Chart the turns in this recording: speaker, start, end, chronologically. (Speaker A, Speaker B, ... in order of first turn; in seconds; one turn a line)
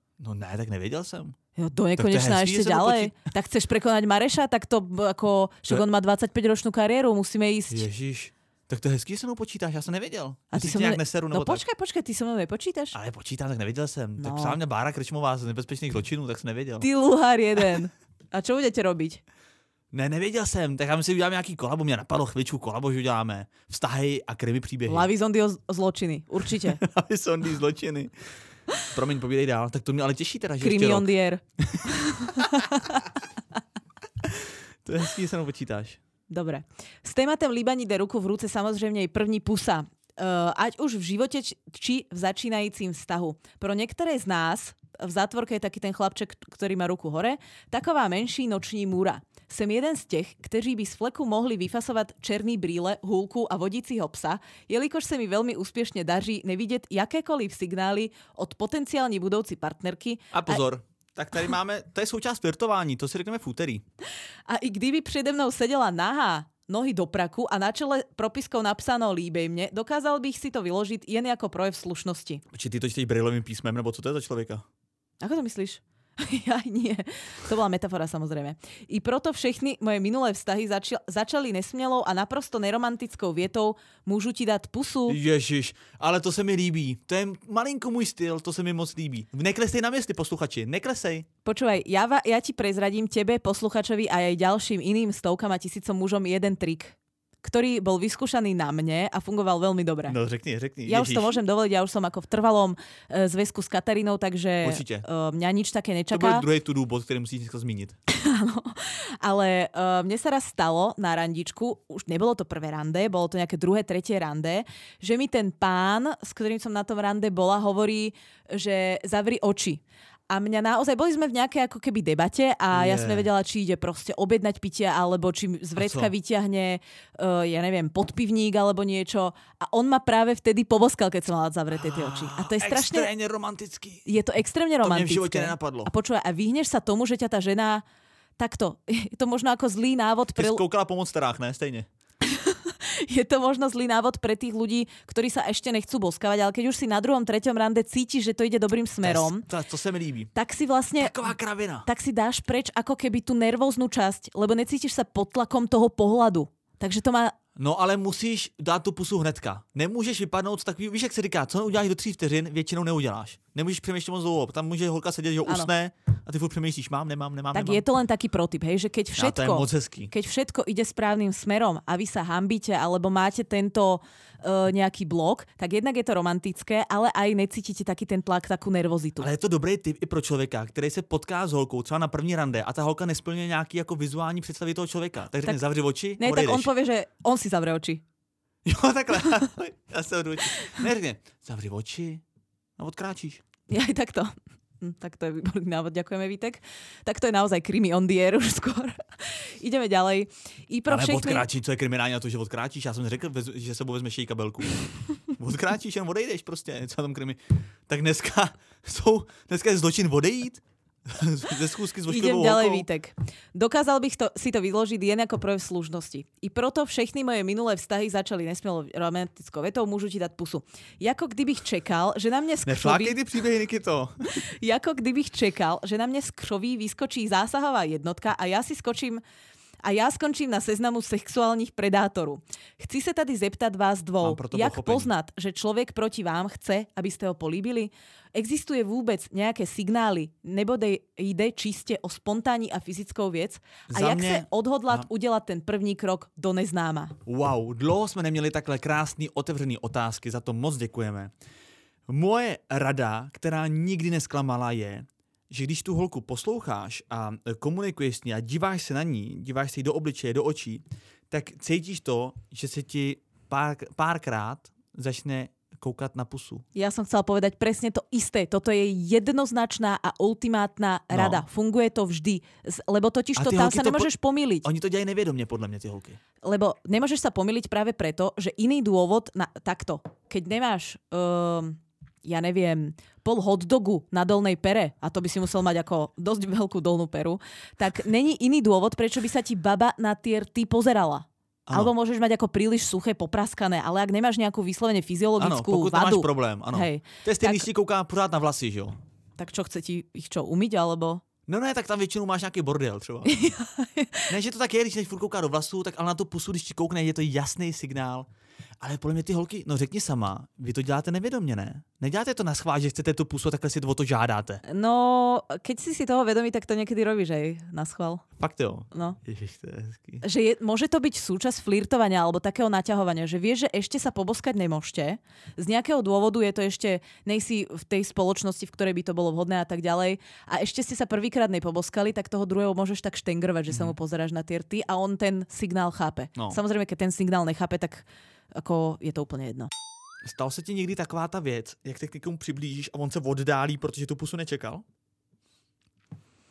Speaker A: 0.2-1.4
Speaker B: 1.6-7.9
Speaker A: 2.0-3.1
Speaker A: 7.7-11.6
Speaker B: 10.5-13.0
Speaker A: 12.9-16.9
Speaker B: 14.2-14.6
Speaker B: 16.8-19.2
Speaker A: 19.9-25.1
Speaker B: 24.9-26.8
Speaker A: 26.6-28.1
Speaker A: 28.8-32.8
Speaker B: 30.6-33.0
Speaker A: 34.2-36.0
Speaker B: 36.3-60.6
Speaker A: 60.3-63.8
Speaker B: 64.5-72.4
Speaker A: 72.5-74.6
Speaker B: 75.2-85.2
Speaker A: 85.1-91.3
Speaker B: 91.5-100.2
Speaker A: 100.1-101.4
Speaker B: 100.9-106.5
Speaker A: 104.6-105.1
Speaker A: 106.1-108.0
Speaker B: 108.1-133.1
Speaker A: 122.7-123.3
Speaker A: 125.8-126.1
Speaker A: 131.7-134.1
Speaker B: 134.1-137.8
Speaker A: 134.8-135.9
Speaker B: 138.4-140.6
Speaker A: 140.3-141.9
Speaker B: 142.2-149.5
Speaker A: 149.0-150.3
Speaker B: 150.3-151.3
Speaker A: 151.0-151.9
Speaker B: 151.8-157.4
Speaker A: 157.6-167.8
Speaker B: 165.4-165.7
Speaker B: 167.5-179.3
Speaker A: 169.2-170.1
Speaker A: 179.2-186.7
Speaker B: 186.2-188.0
Speaker A: 188.7-192.2
Speaker A: 192.8-193.4
Speaker B: 193.7-201.5
Speaker A: 200.9-212.9
Speaker B: 212.1-223.2
Speaker A: 222.7-224.3
Speaker B: 224.3-229.2
Speaker B: 229.8-247.2
Speaker A: 234.2-235.1
Speaker A: 243.9-245.1
Speaker A: 247.2-251.3
Speaker A: 252.1-266.6
Speaker B: 266.8-274.7
Speaker A: 271.1-271.4
Speaker A: 273.4-274.1
Speaker A: 274.6-276.2
Speaker B: 276.4-297.7
Speaker A: 295.4-299.0
Speaker B: 299.4-301.2
Speaker A: 301.5-303.4
Speaker B: 303.3-304.3
Speaker A: 304.3-308.3
Speaker A: 308.8-314.6
Speaker B: 314.6-318.2
Speaker A: 318.4-320.2
Speaker B: 318.9-319.2
Speaker B: 320.2-339.7
Speaker A: 340.2-344.8